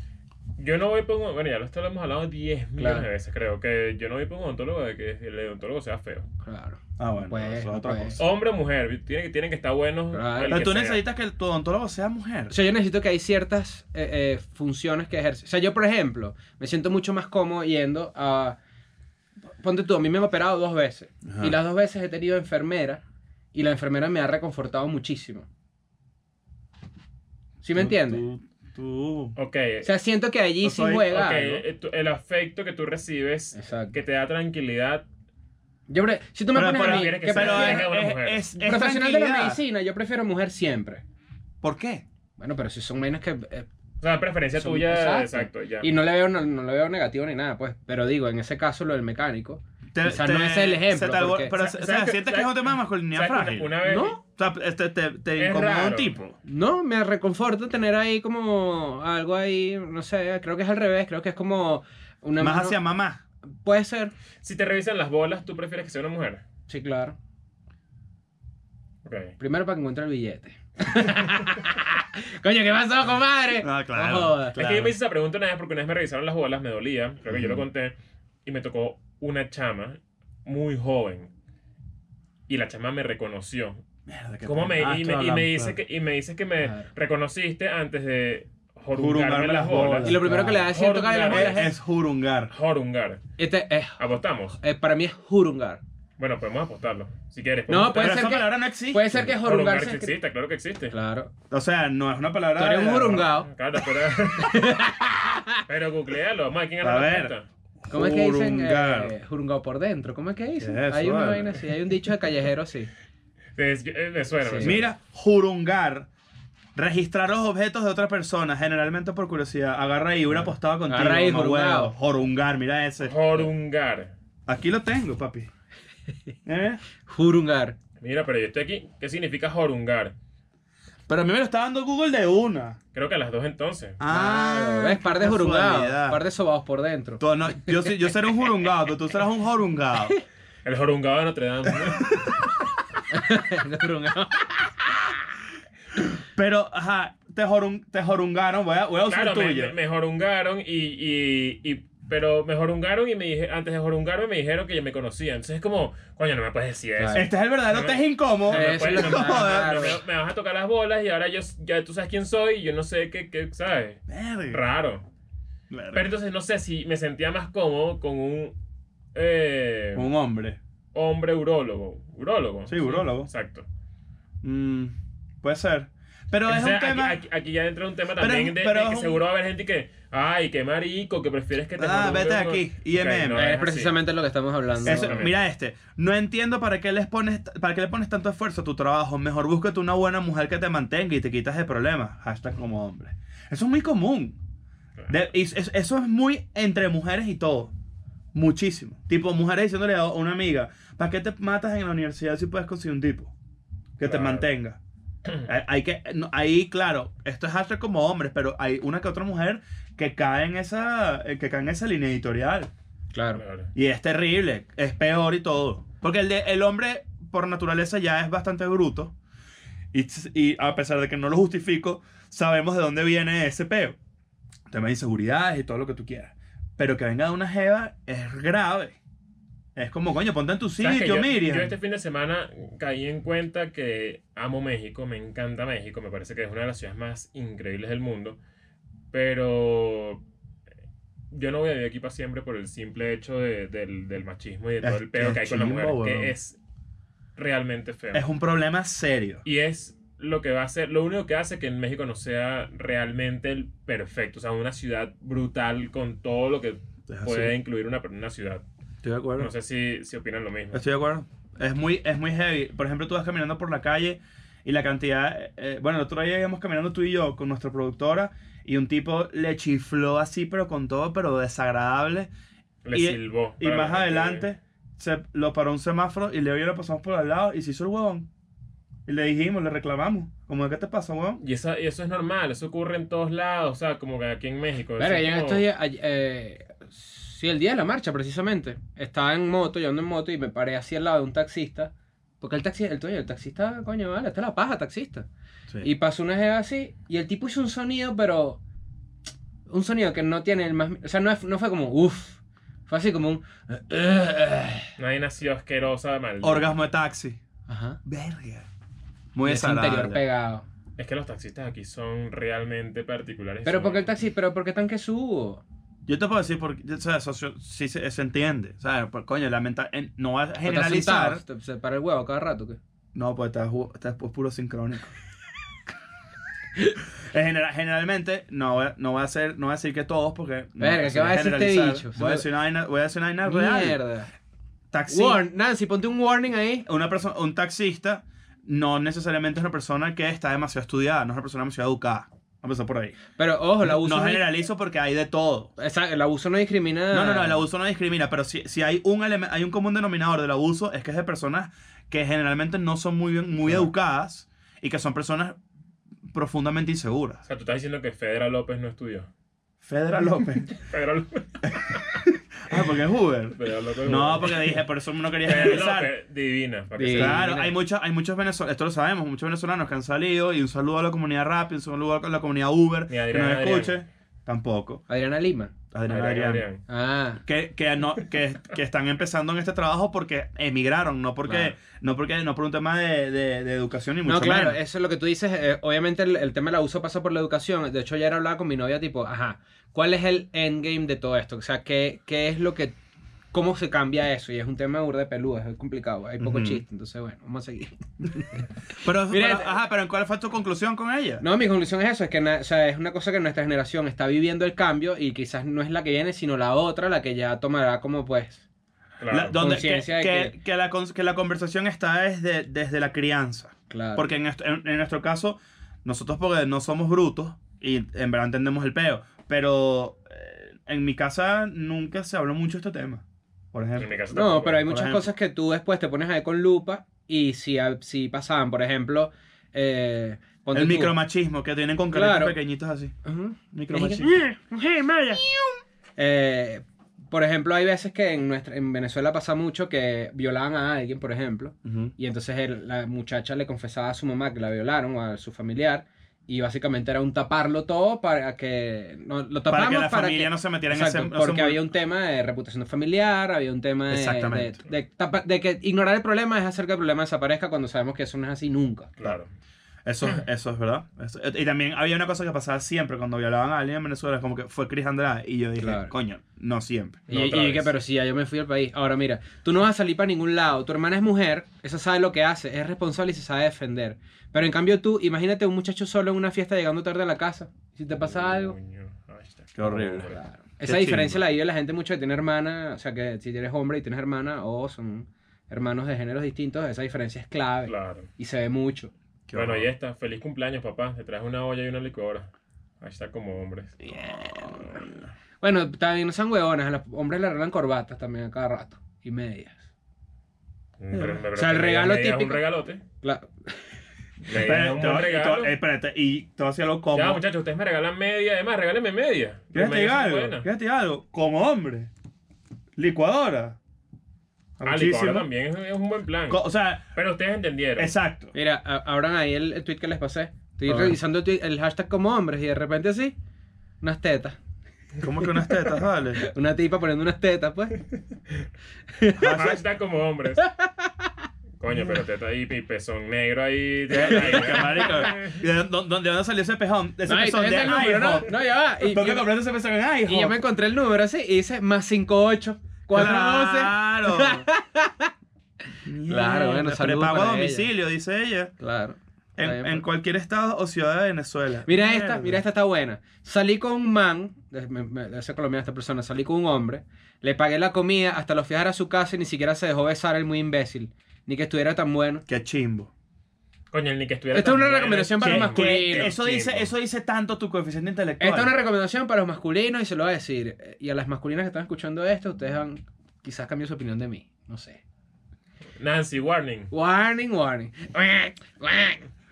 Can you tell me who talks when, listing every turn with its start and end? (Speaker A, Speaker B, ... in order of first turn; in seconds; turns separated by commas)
Speaker A: 0.6-6.3, Speaker B: 2.8-3.1, Speaker B: 6.4-8.2, Speaker C: 7.0-8.2, Speaker A: 8.2-11.0, Speaker B: 10.1-10.6, Speaker C: 10.5-12.5, Speaker B: 12.5-18.6, Speaker B: 19.6-23.0, Speaker C: 21.2-21.5, Speaker B: 23.5-25.5, Speaker B: 27.6-28.2, Speaker C: 27.7-29.3, Speaker A: 29.4-29.9, Speaker B: 29.8-31.6, Speaker C: 30.6-31.1, Speaker A: 31.1-35.0, Speaker B: 33.5-34.0, Speaker B: 35.9-37.9, Speaker C: 36.5-39.6, Speaker A: 36.7-38.4, Speaker B: 38.6-41.0, Speaker C: 41.6-42.0, Speaker B: 42.4-43.7, Speaker A: 44.0-45.9, Speaker B: 44.6-51.5, Speaker C: 49.9-53.8, Speaker A: 51.5-54.1, Speaker B: 53.8-54.2, Speaker C: 54.4-56.4, Speaker A: 55.4-56.2, Speaker B: 56.4-62.8, Speaker C: 62.4-63.2, Speaker B: 63.6-64.1, Speaker A: 64.4-66.4, Speaker B: 66.7-67.2, Speaker A: 69.0-69.3, Speaker B: 69.4-74.6, Speaker C: 73.6-74.9, Speaker A: 74.5-77.9, Speaker C: 77.3-77.6, Speaker A: 78.4-81.3, Speaker A: 82.5-83.8, Speaker C: 84.1-85.8, Speaker A: 84.4-91.7, Speaker B: 86.6-86.9, Speaker C: 88.9-90.7, Speaker B: 90.0-91.7, Speaker C: 91.3-92.5, Speaker A: 92.5-93.2, Speaker B: 93.4-94.0, Speaker A: 94.0-94.6, Speaker B: 94.6-95.8, Speaker A: 96.2-98.2, Speaker B: 97.7-100.1, Speaker C: 97.9-99.3, Speaker A: 99.3-100.9, Speaker B: 100.9-101.3, Speaker C: 101.5-103.3, Speaker B: 102.6-103.5, Speaker A: 103.4-104.8, Speaker B: 104.4-105.6, Speaker A: 105.7-107.5, Speaker C: 106.8-107.3, Speaker C: 107.9-109.1, Speaker B: 107.9-112.9, Speaker C: 110.6-111.7, Speaker A: 113.5-114.9, Speaker B: 114.4-114.8, Speaker C: 114.6-116.1, Speaker C: 116.7-123.1, Speaker B: 120.3-121.9, Speaker A: 123.0-124.1, Speaker C: 124.5-125.5, Speaker C: 126.5-126.8, Speaker B: 127.0-127.8, Speaker A: 128.0-130.1, Speaker C: 131.1-132.8, Speaker A: 132.9-134.0, Speaker C: 134.0-136.2, Speaker B: 134.1-137.9, Speaker C: 137.2-140.1, Speaker A: 140.6-142.1, Speaker C: 141.8-142.4, Speaker B: 143.1-145.1, Speaker C: 146.3-149.7, Speaker A: 149.1-165.0, Speaker B: 157.0-157.3, Speaker C: 157.1-160.0, Speaker B: 158.5-160.0, Speaker C: 164.1-164.6, Speaker C: 165.7-166.1, Speaker A: 165.9-168.5, Speaker A: 169.1-170.1, Speaker C: 169.9-170.6, Speaker A: 170.9-173.7, Speaker C: 172.7-173.3, Speaker C: 174.4-177.2, Speaker A: 176.5-184.0, Speaker C: 178.2-179.2, Speaker C: 181.8-183.5, Speaker B: 183.3-185.2, Speaker A: 184.8-185.4, Speaker C: 184.8-194.4, Speaker C: 195.1-197.7, Speaker C: 198.3-203.3, Speaker C: 204.0-204.8, Speaker A: 204.0-204.5, Speaker C: 205.4-212.7, Speaker B: 213.1-213.4, Speaker A: 213.3-213.7, Speaker C: 213.7-219.1, Speaker C: 219.9-224.0, Speaker C: 224.7-229.0, Speaker C: 229.8-231.7, Speaker A: 230.8-238.4, Speaker A: 239.1-240.2, Speaker A: 241.3-246.6, Speaker C: 244.8-246.3, Speaker A: 247.3-248.2, Speaker C: 248.1-249.4, Speaker A: 249.4-258.6, Speaker C: 257.1-257.5, Speaker C: 259.0-259.5, Speaker A: 259.4-260.8, Speaker C: 260.7-272.3, Speaker A: 272.8-274.5, Speaker C: 272.9-278.3, Speaker C: 279.1-281.4, Speaker A: 281.4-285.6, Speaker B: 285.0-295.2, Speaker B: 295.8-298.6, Speaker B: 299.7-304.9, Speaker A: 305.0-306.7, Speaker C: 306.4-307.4, Speaker B: 307.7-308.0, Speaker C: 308.0-308.7, Speaker C: 309.3-310.2, Speaker B: 309.4-310.6, Speaker A: 311.0-314.1, Speaker B: 313.6-315.6, Speaker C: 316.1-321.4, Speaker B: 320.6-322.8, Speaker C: 323.1-325.1, Speaker C: 327.2-334.0, Speaker B: 330.8-332.4, Speaker B: 333.4-334.3, Speaker C: 334.9-335.4, Speaker B: 335.1-336.9, Speaker C: 336.9-343.2, Speaker B: 343.4-344.5, Speaker C: 343.8-345.7, Speaker B: 345.8-347.6, Speaker C: 347.1-355.6, Speaker C: 356.3-357.4, Speaker A: 357.4-359.3, Speaker C: 359.8-360.7, Speaker A: 360.7-362.8, Speaker C: 362.2-366.1, Speaker A: 363.5-364.8, Speaker A: 365.4-367.6, Speaker B: 367.0-367.7, Speaker C: 367.1-375.0, Speaker A: 373.1-374.0, Speaker B: 375.1-375.7, Speaker C: 375.9-376.6, Speaker A: 376.1-376.8, Speaker B: 376.9-377.4, Speaker C: 377.4-384.8, Speaker B: 381.4-381.7, Speaker B: 384.2-392.9, Speaker B: 393.5-398.7, Speaker C: 396.4-396.8, Speaker C: 399.0-401.4, Speaker B: 399.3-399.7, Speaker B: 401.4-408.6, Speaker A: 409.2-409.6, Speaker C: 409.3-425.3, Speaker B: 409.5-410.5, Speaker B: 413.9-414.2, Speaker A: 424.0-424.8, Speaker B: 424.3-431.1, Speaker C: 430.7-433.1, Speaker B: 432.1-432.5, Speaker B: 433.2-435.4, Speaker C: 433.7-434.4, Speaker B: 436.2-459.1, Speaker C: 441.8-442.1, Speaker C: 449.7-451.8, Speaker C: 454.1-454.8, Speaker A: 459.2-459.5, Speaker C: 460.0-467.2, Speaker B: 465.8-466.1, Speaker A: 467.3-467.9, Speaker B: 467.3-478.8, Speaker A: 478.2-480.4, Speaker C: 479.8-481.4, Speaker B: 480.2-489.1, Speaker A: 487.9-488.3, Speaker C: 489.5-489.9, Speaker A: 489.5-492.5, Speaker A: 493.0-494.0, Speaker C: 494.1-495.0, Speaker B: 494.1-494.8, Speaker B: 495.6-499.8, Speaker A: 501.0-503.0, Speaker B: 501.1-502.6, Speaker B: 503.2-503.8, Speaker A: 504.4-505.7, Speaker C: 504.5-507.4, Speaker A: 507.1-510.7, Speaker C: 509.7-512.1, Speaker C: 513.0-513.8, Speaker C: 514.8-515.5, Speaker A: 514.8-516.6, Speaker C: 516.5-517.0, Speaker A: 517.1-518.1, Speaker C: 518.0-518.5, Speaker B: 518.5-523.4, Speaker C: 520.9-521.2, Speaker B: 524.0-524.6, Speaker C: 525.2-526.5, Speaker B: 525.6-525.8, Speaker B: 526.4-528.0, Speaker B: 529.1-529.6, Speaker C: 529.4-529.8, Speaker A: 529.5-530.6, Speaker B: 530.6-531.3, Speaker A: 531.8-535.6, Speaker C: 534.1-540.6, Speaker B: 534.3-535.2, Speaker B: 537.2-539.5, Speaker B: 540.2-545.3, Speaker C: 543.1-544.7, Speaker C: 546.0-548.7, Speaker B: 546.3-547.9, Speaker B: 548.8-550.0, Speaker C: 549.6-552.6, Speaker B: 551.8-562.4, Speaker C: 562.5-563.1, Speaker A: 563.9-566.9, Speaker B: 564.5-566.3, Speaker C: 565.4-568.7, Speaker B: 568.4-575.0, Speaker A: 576.0-576.9, Speaker B: 576.9-579.2